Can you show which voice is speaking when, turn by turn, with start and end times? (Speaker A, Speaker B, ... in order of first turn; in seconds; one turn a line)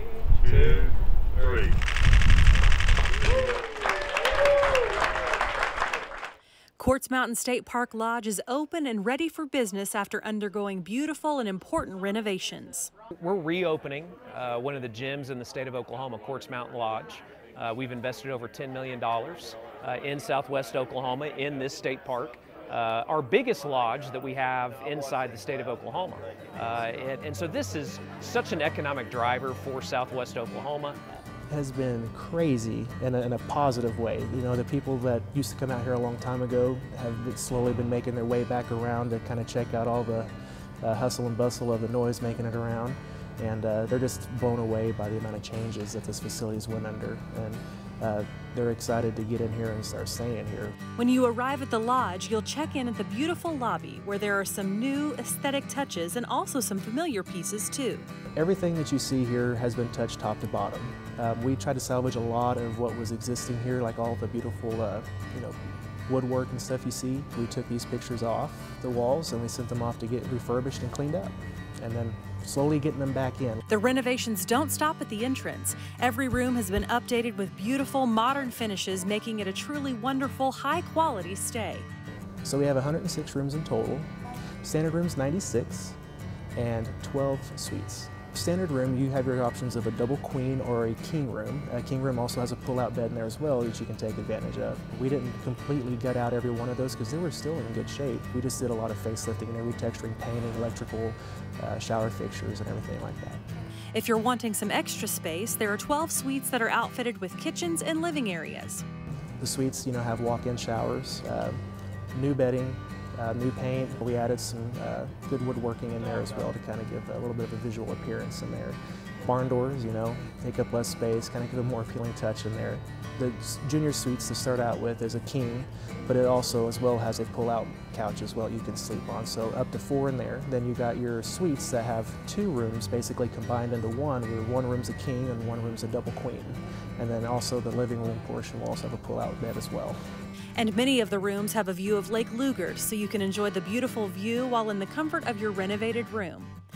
Speaker A: 0.4-0.9
Speaker A: 1.4-1.7
Speaker B: 6.8-12.9
Speaker A: 13.2-31.0
Speaker C: 31.5-50.8
Speaker B: 51.0-58.1
Speaker C: 58.4-73.6
Speaker B: 73.7-81.9
Speaker C: 82.4-84.1
Speaker C: 84.6-86.0
Speaker C: 86.5-103.4
Speaker B: 103.9-108.8
Speaker C: 109.4-111.6
Speaker C: 112.1-140.0
Speaker B: 140.6-146.5